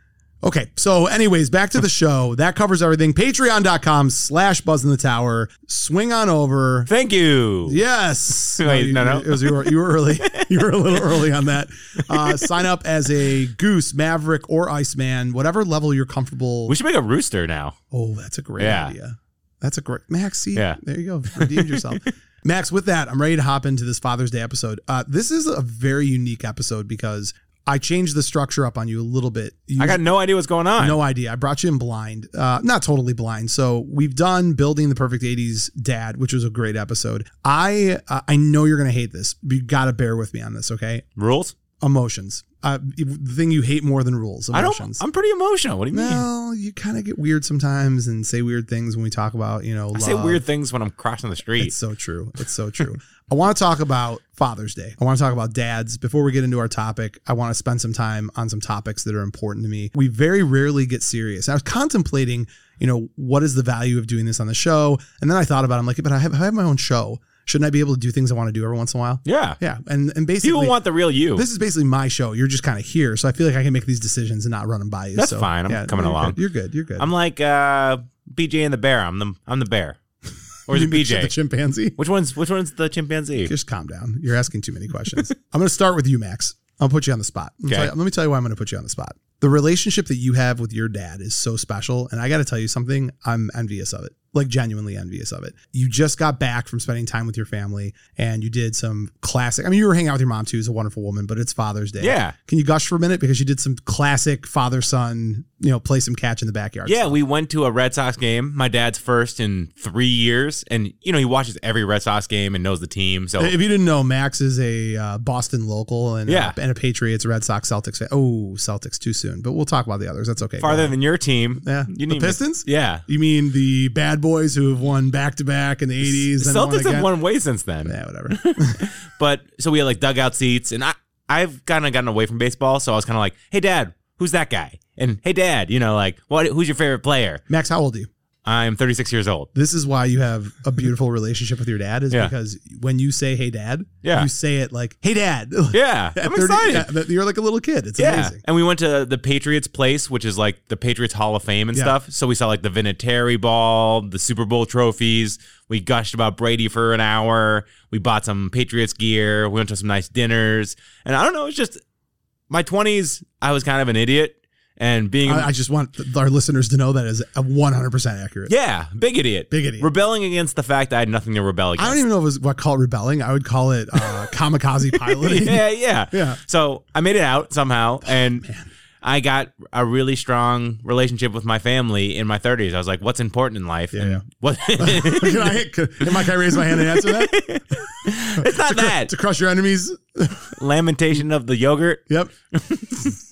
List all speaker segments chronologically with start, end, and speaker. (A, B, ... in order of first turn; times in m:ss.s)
0:00.4-0:06.9 A
0:06.9-0:07.8 B
0:07.6-0:16.8 A
0:08.6-0:11.3 B
0:12.1-0:12.6 B
0:16.7-0:17.8 B
0:17.9-0:30.0 A
0:18.6-0:18.9 B
0:20.5-0:20.8 B
0:21.3-0:22.1 B
0:29.8-0:31.0 B
0:30.8-0:41.0 A
0:41.2-0:41.5 B
0:41.8-0:45.0 A
0:44.5-0:46.3 B
0:45.9-0:50.4 A
0:49.9-0:51.7 B
0:51.6-1:10.8 A
1:09.2-1:09.6 B
1:10.4-1:11.4 B
1:11.3-1:17.1 A
1:15.2-1:16.4 B
1:17.0-1:20.0 B
1:20.7-1:21.3 B
1:20.7-1:22.0 A
1:22.0-1:23.5 B
1:23.4-1:47.2 A
1:27.7-1:27.9 B
1:42.0-1:42.3 B
1:46.8-1:53.5 B
1:53.4-2:00.9 A
1:56.3-1:56.6 B
2:00.6-2:03.0 B
2:01.6-2:07.1 A
2:06.0-2:17.4 B
2:07.8-2:08.9 A
2:17.5-2:18.1 A
2:18.4-2:19.5 B
2:19.5-2:28.4 A
2:24.0-2:24.3 B
2:25.7-2:27.0 B
2:28.0-2:41.8 B
2:42.5-2:45.5 B
2:45.2-2:48.5 A
2:48.5-2:52.0 B
2:49.5-2:49.9 A
2:51.8-2:56.4 A
2:55.0-2:58.4 B
2:58.1-2:58.7 A
2:59.0-3:05.6 B
3:03.9-3:04.2 A
3:04.8-3:10.6 A
3:06.2-3:09.1 B
3:10.5-3:13.1 B